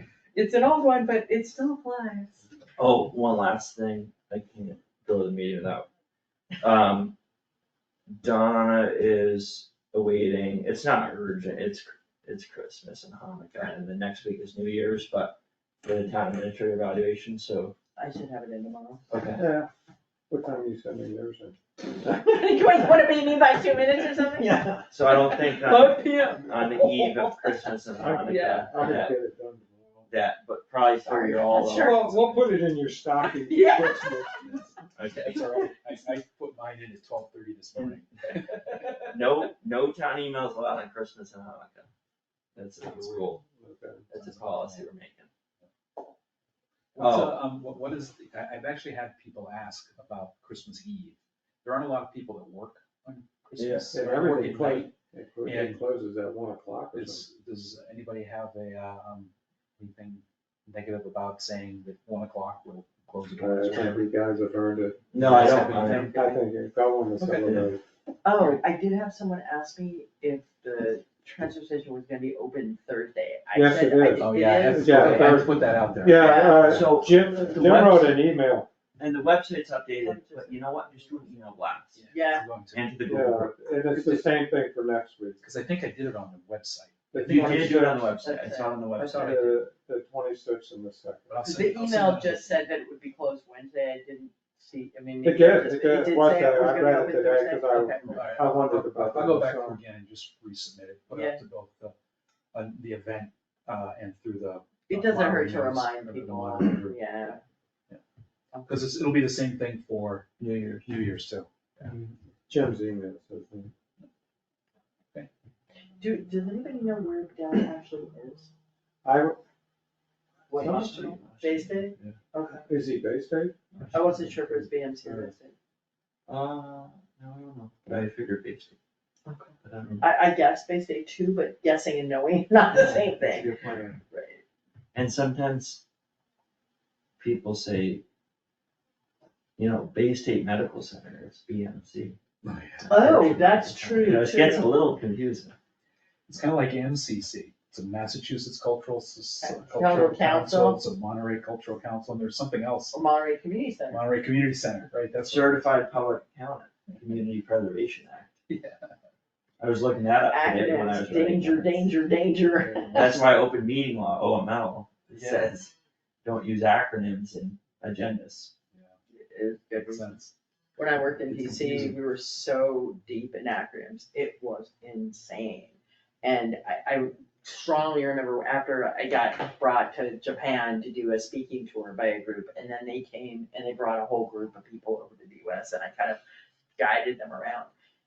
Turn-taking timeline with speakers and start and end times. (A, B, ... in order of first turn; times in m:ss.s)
0:00.3-0:02.4 A
0:02.8-0:05.9 B
0:06.6-0:07.2 B
0:08.2-0:17.8 B
0:18.0-0:19.0 A
0:19.1-0:19.4 B
0:19.4-0:19.7 C
0:20.3-0:21.6 C
0:21.9-0:28.8 A
0:24.9-0:29.2 B
0:28.0-0:30.0 C
0:30.1-0:32.2 B
0:31.1-0:32.1 A
0:31.6-0:34.7 C
0:33.2-0:34.6 A
0:35.0-0:35.5 B
0:35.1-0:38.6 D
0:39.1-0:41.9 B
0:42.6-0:43.4 B
0:43.0-0:43.3 D
0:43.6-0:44.1 C
0:44.1-0:45.3 B
0:44.2-0:44.8 D
0:47.0-0:54.9 D
0:47.0-0:47.4 B
0:53.6-0:53.9 B
0:53.9-0:57.3 C
0:55.4-0:55.8 D
0:56.9-1:04.0 D
1:03.4-1:07.8 C
1:05.1-1:06.1 B
1:05.2-1:06.0 D
1:05.2-1:06.4 A
1:07.2-1:07.6 D
1:08.2-1:15.5 A
1:13.5-1:18.7 C
1:14.2-1:17.3 D
1:16.1-1:16.8 A
1:16.6-1:18.2 B
1:19.0-1:22.0 B
1:19.9-1:21.5 A
1:22.0-1:22.9 D
1:22.1-1:22.5 A
1:22.7-1:24.0 B
1:23.0-1:25.4 C
1:25.4-1:27.9 D
1:27.1-1:28.1 C
1:27.3-1:29.6 B
1:28.1-1:28.8 A
1:29.0-1:31.4 C
1:31.3-1:32.7 D
1:31.4-1:38.3 A
1:35.2-1:39.8 C
1:38.0-1:42.0 D
1:41.1-1:41.4 A
1:42.5-1:47.0 D
1:44.9-1:47.4 A
1:48.5-1:48.9 A
1:48.7-1:51.5 D
1:50.4-1:50.9 B
1:51.8-1:53.7 C
1:56.0-1:58.5 A
1:59.0-1:59.4 C
2:00.5-2:02.7 A
2:00.6-2:02.2 B
2:00.6-2:00.9 C
2:02.7-2:03.6 C
2:03.8-2:04.3 B
2:03.9-2:05.6 A
2:06.3-2:08.8 B
2:09.3-2:13.5 A
2:09.6-2:10.0 B
2:13.0-2:14.0 C
2:14.1-2:14.4 A
2:14.9-2:15.8 B
2:17.2-2:18.0 B
2:19.6-2:22.2 B
2:22.4-2:23.9 D
2:22.9-2:25.6 B
2:22.9-2:24.7 A
2:26.3-2:33.0 D
2:29.4-2:30.8 A
2:32.9-2:34.0 A
2:33.9-2:35.7 D
2:35.2-2:38.3 B
2:38.5-2:38.9 D
2:39.6-2:41.9 B
2:40.3-2:43.2 A
2:42.9-2:45.7 B
2:45.1-2:45.5 D
2:46.2-2:48.5 B
2:49.2-2:50.1 A
2:49.8-2:50.3 D
2:50.8-3:06.2 A
2:51.2-2:52.0 D
3:06.8-3:07.7 A